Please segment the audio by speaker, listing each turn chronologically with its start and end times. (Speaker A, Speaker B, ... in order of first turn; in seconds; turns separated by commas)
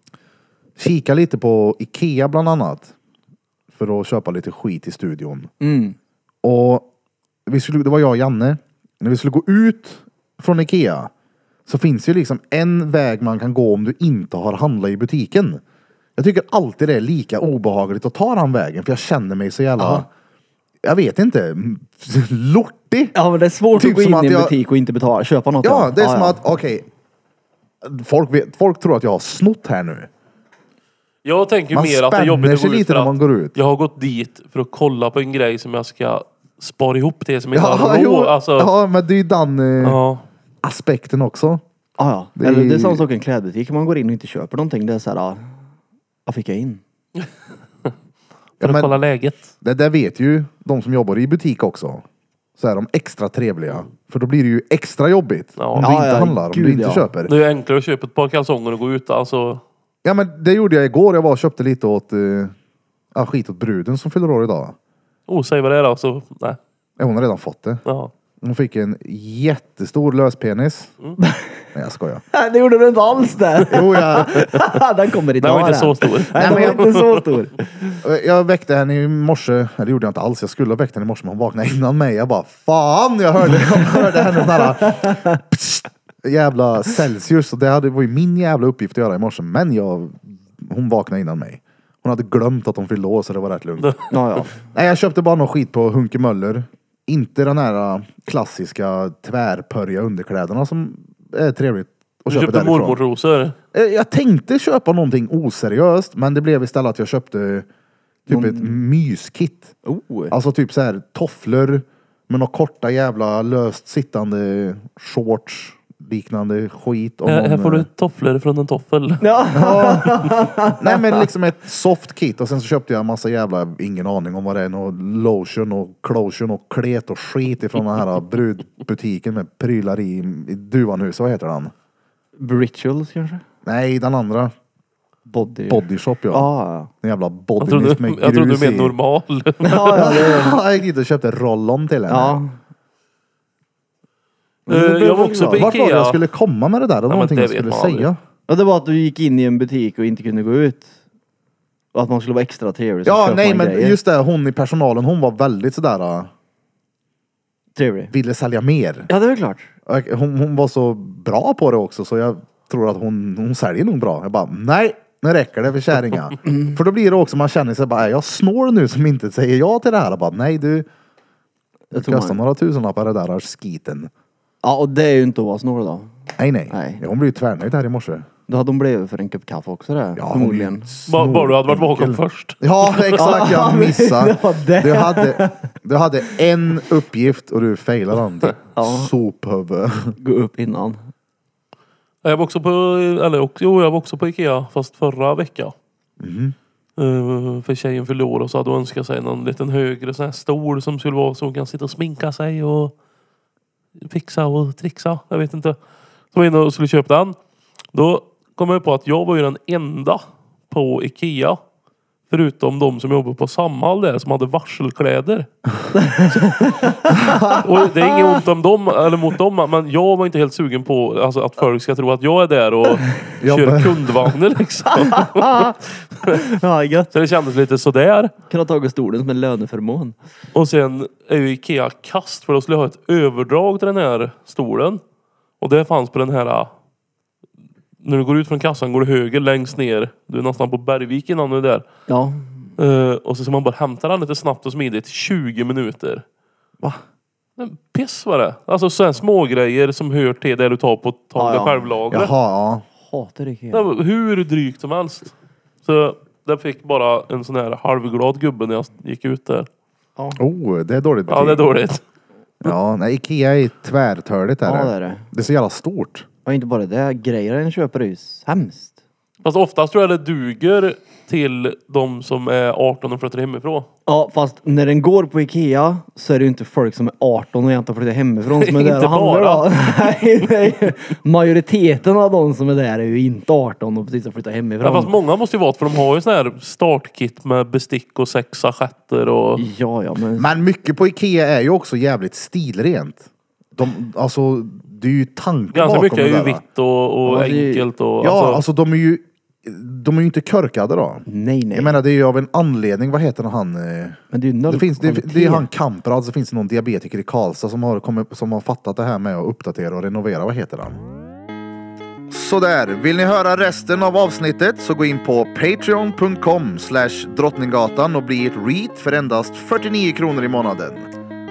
Speaker A: 0.8-2.9, Speaker A: 3.7-5.5, Speaker B: 5.6-6.0, Speaker A: 6.4-6.9, Speaker A: 7.5-11.1, Speaker A: 11.7-15.6, Speaker A: 16.2-20.1, Speaker B: 19.8-20.0, Speaker A: 20.8-23.1, Speaker B: 23.1-26.4, Speaker A: 23.8-24.6, Speaker A: 25.6-26.9, Speaker A: 27.8-30.1, Speaker C: 31.2-38.7, Speaker A: 31.7-33.5, Speaker A: 37.5-40.0, Speaker C: 39.8-40.2, Speaker A: 40.6-41.6, Speaker B: 42.0-45.5, Speaker A: 42.4-43.0, Speaker B: 46.3-46.8, Speaker C: 48.6-49.5, Speaker A: 48.6-49.0, Speaker A: 49.6-52.0, Speaker A: 52.6-57.3, Speaker C: 55.6-55.9, Speaker B: 55.8-57.1, Speaker C: 57.3-59.6, Speaker A: 60.0-62.5, Speaker A: 63.1-64.8, Speaker C: 65.3-66.6, Speaker A: 67.0-67.8, Speaker C: 67.9-68.1, Speaker A: 68.4-71.0, Speaker B: 71.2-71.7, Speaker A: 71.7-72.2, Speaker B: 72.3-77.9, Speaker A: 73.7-74.5, Speaker C: 75.4-77.2, Speaker A: 76.4-76.9, Speaker A: 78.0-94.0, Speaker B: 83.8-85.3, Speaker C: 93.8-94.1, Speaker B: 94.1-94.6, Speaker A: 94.7-103.0, Speaker C: 102.3-103.5, Speaker A: 103.7-107.7, Speaker A: 108.3-109.7, Speaker B: 108.3-108.8, Speaker B: 109.8-110.3, Speaker A: 110.3-117.9, Speaker C: 117.2-119.2, Speaker B: 119.2-121.2, Speaker A: 119.5-131.7, Speaker C: 120.0-120.2, Speaker B: 132.4-133.4, Speaker A: 133.7-134.5, Speaker B: 135.3-136.9, Speaker A: 135.7-139.0, Speaker C: 137.6-140.2, Speaker B: 139.6-140.6, Speaker A: 139.9-142.4, Speaker B: 142.1-142.6, Speaker B: 144.7-145.7, Speaker C: 144.7-146.2, Speaker A: 145.6-148.2, Speaker C: 147.1-148.1, Speaker B: 148.5-150.9, Speaker B: 151.9-154.0, Speaker A: 153.1-156.3, Speaker B: 157.8-158.1, Speaker A: 158.1-159.1, Speaker B: 159.1-159.7, Speaker A: 159.9-170.9, Speaker B: 166.5-166.8, Speaker B: 171.9-172.4, Speaker A: 171.9-174.1, Speaker B: 174.6-176.1, Speaker A: 176.4-178.2, Speaker B: 176.7-177.0, Speaker B: 178.5-180.9, Speaker A: 180.2-190.2, Speaker C: 181.1-183.3, Speaker B: 183.2-185.7, Speaker B: 188.8-189.1, Speaker B: 190.2-191.0, Speaker C: 192.2-195.8, Speaker A: 196.2-196.6, Speaker C: 197.0-202.9, Speaker C: 204.0-205.8, Speaker C: 206.3-207.4, Speaker C: 207.9-211.6, Speaker C: 212.3-215.5, Speaker B: 215.9-217.6, Speaker C: 216.2-216.9, Speaker C: 217.6-226.4, Speaker A: 223.4-224.3, Speaker B: 225.0-225.8, Speaker B: 226.3-227.1, Speaker C: 227.1-228.3, Speaker B: 228.5-230.2, Speaker C: 230.5-235.0, Speaker C: 235.6-236.7, Speaker C: 238.0-241.8, Speaker B: 242.1-242.7, Speaker C: 242.8-246.2, Speaker C: 247.6-252.3, Speaker B: 251.4-252.0, Speaker A: 252.1-252.8, Speaker B: 253.0-253.9, Speaker C: 253.7-259.7, Speaker A: 260.4-261.6, Speaker C: 261.3-262.0, Speaker A: 262.6-266.3, Speaker B: 264.6-265.3, Speaker B: 266.4-269.0, Speaker C: 269.4-273.9, Speaker B: 274.1-285.1, Speaker C: 278.6-279.7, Speaker C: 284.8-289.7, Speaker B: 289.6-290.5, Speaker A: 290.4-296.6, Speaker C: 295.7-298.6, Speaker B: 297.2-297.9, Speaker A: 298.2-311.0, Speaker B: 301.3-302.0, Speaker B: 304.3-305.7, Speaker A: 312.3-321.1